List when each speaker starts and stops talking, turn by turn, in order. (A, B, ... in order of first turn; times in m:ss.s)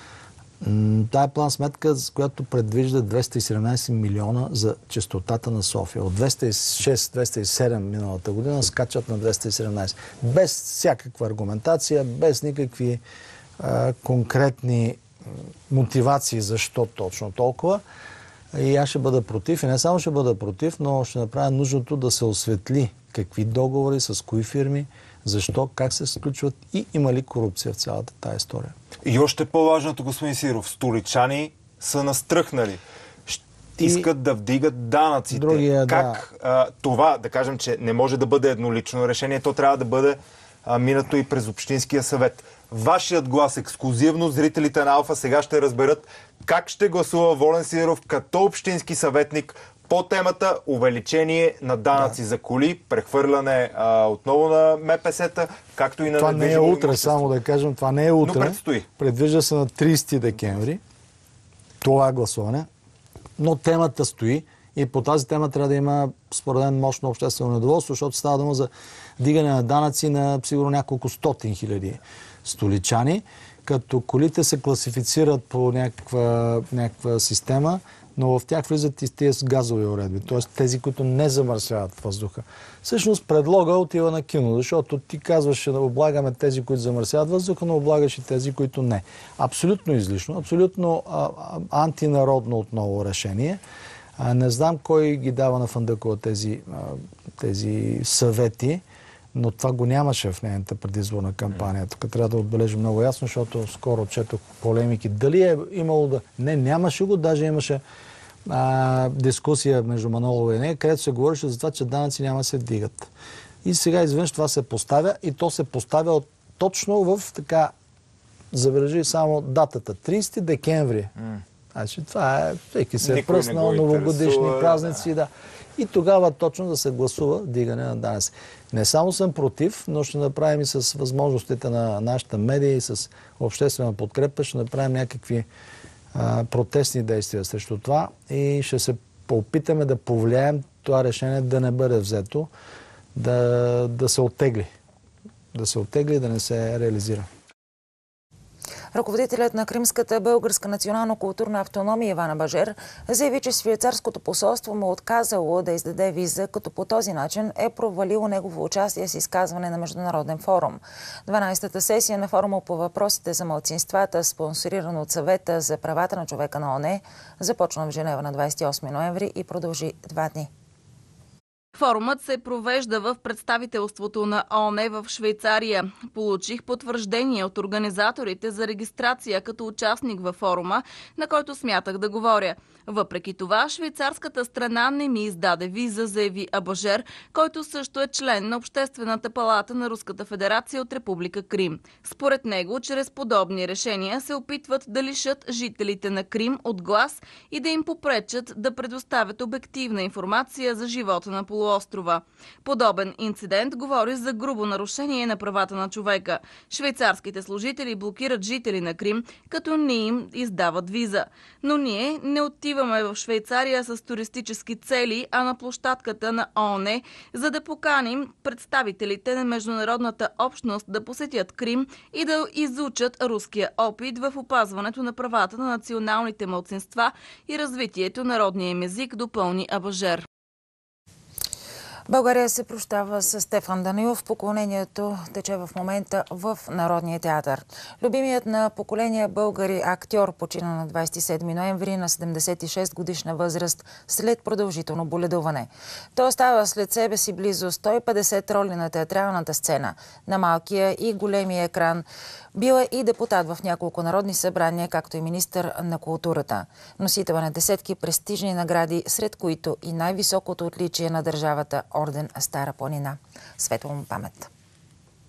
0:00.6-0:13.0 A
0:13.6-0:17.8 A
0:18.5-0:28.8 A
0:29.0-0:57.3 B
0:33.8-0:34.1 A
0:35.3-0:36.2 A
0:56.2-1:00.8 A
0:58.2-0:58.9 B
1:01.8-1:02.7 A
1:03.4-1:33.6 A
1:34.2-1:38.8 A
1:39.3-1:47.8 A
1:48.5-1:53.1 A
1:53.6-1:57.7 A
1:58.5-2:01.1 A
2:01.7-2:15.5 A
2:03.0-2:05.0 B
2:16.1-2:22.5 A
2:23.2-2:24.7 A
2:25.5-2:27.3 A
2:28.9-2:50.5 C
2:51.8-3:50.3 D
3:52.1-4:24.5 C